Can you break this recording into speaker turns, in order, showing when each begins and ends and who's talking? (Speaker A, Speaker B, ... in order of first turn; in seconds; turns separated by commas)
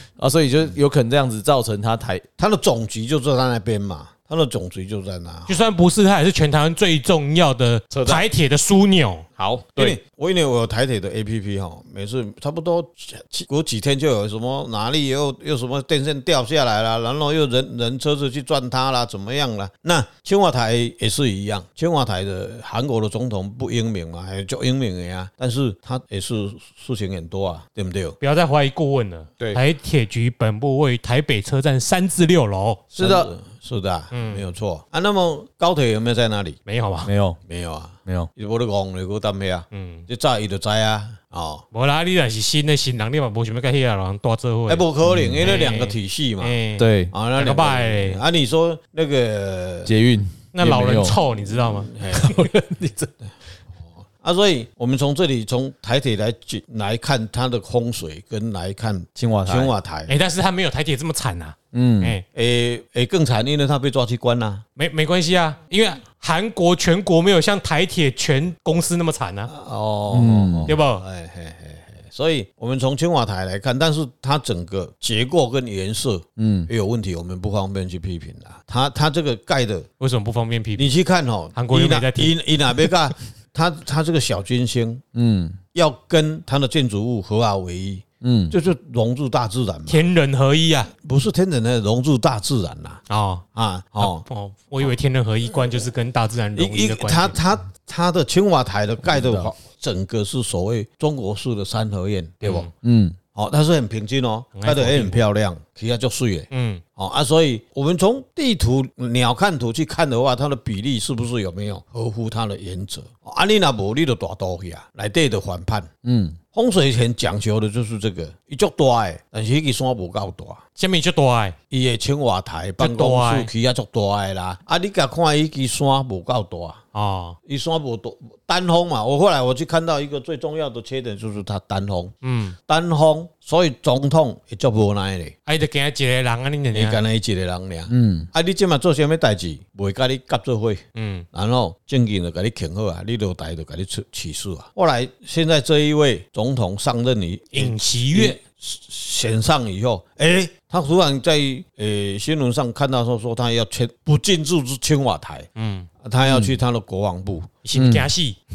Speaker A: 0.2-2.2, Speaker B: 2.4-5.6, Speaker C: 5.5-9.3, Speaker A: 7.9-8.2, Speaker A: 9.4-10.0, Speaker B: 9.7-28.2, Speaker C: 28.2-32.8, Speaker A: 32.9-33.3, Speaker B: 32.9-36.6, Speaker C: 34.1-34.4, Speaker C: 36.6-37.1, Speaker A: 37.0-37.4, Speaker B: 37.5-41.6, Speaker C: 39.7-40.0, Speaker C: 41.7-44.8, Speaker B: 44.7-46.6, Speaker A: 45.0-45.5, Speaker C: 45.4-48.2, Speaker A: 46.8-47.1, Speaker B: 47.1-49.9, Speaker A: 49.9-51.2, Speaker C: 50.5-51.9, Speaker B: 51.9-52.4, Speaker A: 52.1-53.1, Speaker B: 54.2-60.1, Speaker A: 59.1-59.7, Speaker C: 60.1-62.2, Speaker A: 61.7-62.1, Speaker B: 62.3-64.6, Speaker C: 64.8-69.5, Speaker B: 69.5-79.9, Speaker A: 70.1-70.7, Speaker C: 70.7-71.0, Speaker A: 76.4-76.7, Speaker C: 80.0-80.9, Speaker B: 80.8-85.0, Speaker C: 81.5-82.3, Speaker A: 85.1-85.6, Speaker B: 85.7-90.1, Speaker A: 88.2-88.5, Speaker C: 89.9-90.9, Speaker B: 91.0-93.0, Speaker C: 93.1-93.4, Speaker B: 93.5-94.2, Speaker C: 94.0-97.4, Speaker B: 96.5-102.7, Speaker A: 99.0-99.5, Speaker C: 102.4-102.7, Speaker A: 102.8-103.2, Speaker B: 103.3-115.9, Speaker C: 104.5-105.2, Speaker C: 106.5-106.8, Speaker A: 116.0-116.4, Speaker B: 116.5-120.6, Speaker C: 120.8-121.5, Speaker B: 121.7-126.8, Speaker C: 122.8-123.5, Speaker C: 126.9-127.4, Speaker B: 127.5-132.1, Speaker C: 132.2-132.6, Speaker B: 132.7-135.3, Speaker C: 135.5-137.0, Speaker B: 136.7-155.5, Speaker A: 137.9-138.3, Speaker C: 140.9-141.3, Speaker C: 147.5-148.4, Speaker C: 155.6-155.9, Speaker B: 156.0-157.5, Speaker A: 156.2-156.6, Speaker C: 157.6-158.4, Speaker A: 157.7-158.1